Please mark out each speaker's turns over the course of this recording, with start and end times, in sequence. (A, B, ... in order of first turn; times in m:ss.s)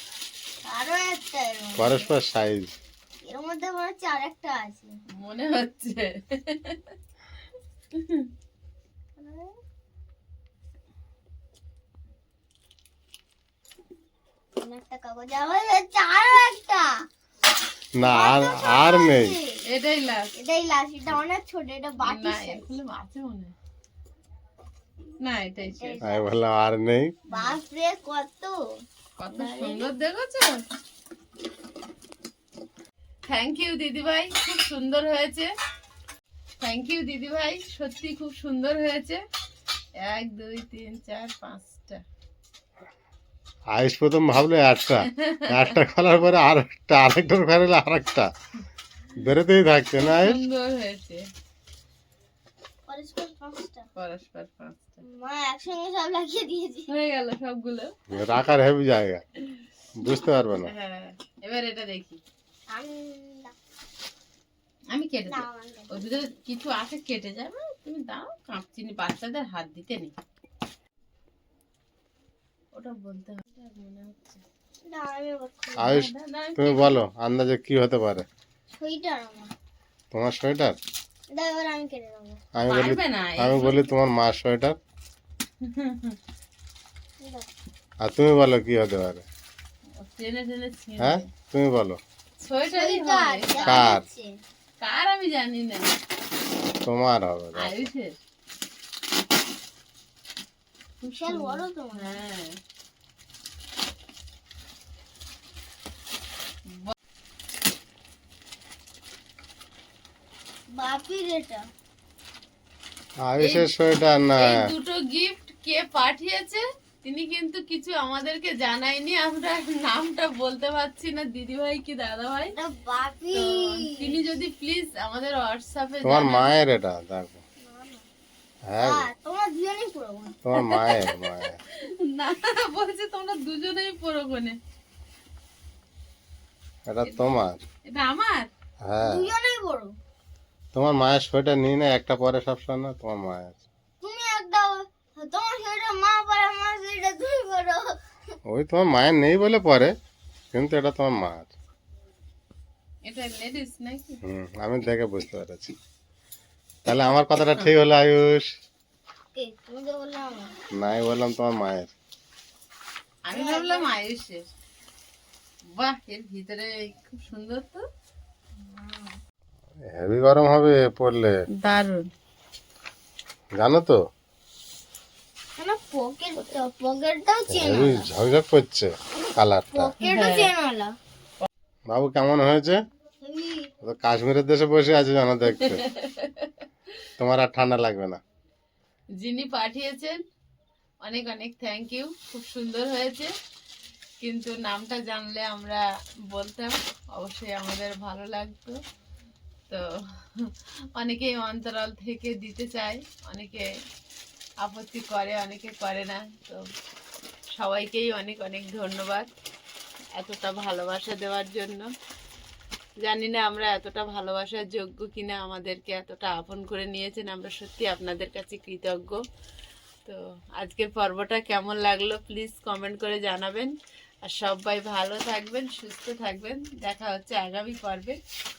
0:00.6-0:02.1 A
0:01.8-0:02.7 B
0:03.2-0:05.0 A
0:05.1-0:06.9 C
0:07.9-0:08.3 C
0:09.2-0:09.6 A
0:14.6-0:17.0 A
0:17.9-0:19.4 B
0:18.0-0:19.6 A
0:19.6-0:20.3 C
0:20.3-0:22.7 A
0:22.0-0:23.5 C
0:25.2-0:26.0 C
0:25.6-0:26.3 A
0:26.0-0:27.2 B
0:27.3-0:28.6 A
0:27.3-0:27.6 C
0:29.2-0:30.6 C
0:29.3-0:29.9 A
0:33.3-0:35.5 C
0:36.6-0:39.2 C
0:40.0-0:42.0 C
0:43.7-0:48.3 B
0:45.1-0:45.7 C
0:49.2-0:50.4 B
0:50.0-0:51.3 C
0:52.9-0:53.9 A
0:54.0-0:55.0 C
0:55.0-0:56.9 A
0:56.9-0:57.9 C
0:58.1-0:59.2 B
0:59.9-1:00.7 B
1:00.6-1:02.2 C
1:02.7-1:03.5 A
1:04.9-1:10.1 C
1:05.3-1:06.1 A
1:12.7-1:14.4 C
1:14.8-1:16.0 A
1:15.8-1:18.3 B
1:15.8-1:17.0 C
1:18.7-1:19.5 A
1:20.1-1:20.8 B
1:21.3-1:22.4 A
1:22.5-1:24.8 B
1:22.7-1:23.9 C
1:25.6-1:26.2 C
1:27.2-1:27.5 A
1:28.0-1:29.2 B
1:30.0-1:31.3 C
1:31.0-1:32.0 B
1:32.4-1:33.9 C
1:32.7-1:34.4 A
1:33.6-1:34.0 B
1:34.8-1:35.9 C
1:36.8-1:37.9 B
1:37.6-1:38.1 C
1:41.0-1:42.2 A
1:41.3-1:42.6 C
1:46.7-1:46.9 C
1:50.7-1:51.7 A
1:53.2-1:54.6 B
1:53.4-1:53.7 C
1:54.4-2:02.6 C
2:02.6-2:04.2 A
2:03.3-2:06.5 C
2:06.0-2:07.4 B
2:07.6-2:08.0 A
2:08.7-2:09.1 B
2:08.8-2:10.4 A
2:10.4-2:11.6 B
2:10.6-2:11.2 C
2:11.8-2:14.6 C
2:16.9-2:17.6 B
2:17.0-2:17.3 C
2:17.8-2:18.5 C
2:18.8-2:19.3 B
2:19.0-2:19.9 A
2:20.7-2:23.6 B
2:24.0-2:28.4 A
2:28.4-2:30.0 B
2:30.5-2:31.5 B
2:33.0-2:34.2 C
2:34.2-2:35.7 B
2:36.8-2:38.5 B
2:39.3-2:40.5 A
2:40.7-2:41.9 B
2:43.2-2:44.4 C
2:43.3-2:43.9 A
2:45.7-2:47.8 C
2:48.6-2:49.2 A
2:49.9-2:51.4 B
2:51.5-2:52.1 C
2:53.6-2:54.0 B
2:55.6-2:58.1 A
2:57.5-2:59.9 B
2:59.7-3:01.0 A
3:00.0-3:00.5 C
3:01.9-3:02.8 B
3:03.2-3:03.7 A
3:03.8-3:05.8 B
3:05.6-3:06.6 C
3:07.2-3:08.2 B
3:09.2-3:10.2 C
3:11.0-3:13.3 C
3:14.2-3:18.8 C
3:19.7-3:23.7 C
3:24.6-3:26.6 C
3:27.6-3:29.3 C
3:30.2-3:31.9 C
3:33.0-3:39.2 C
3:40.0-3:48.2 C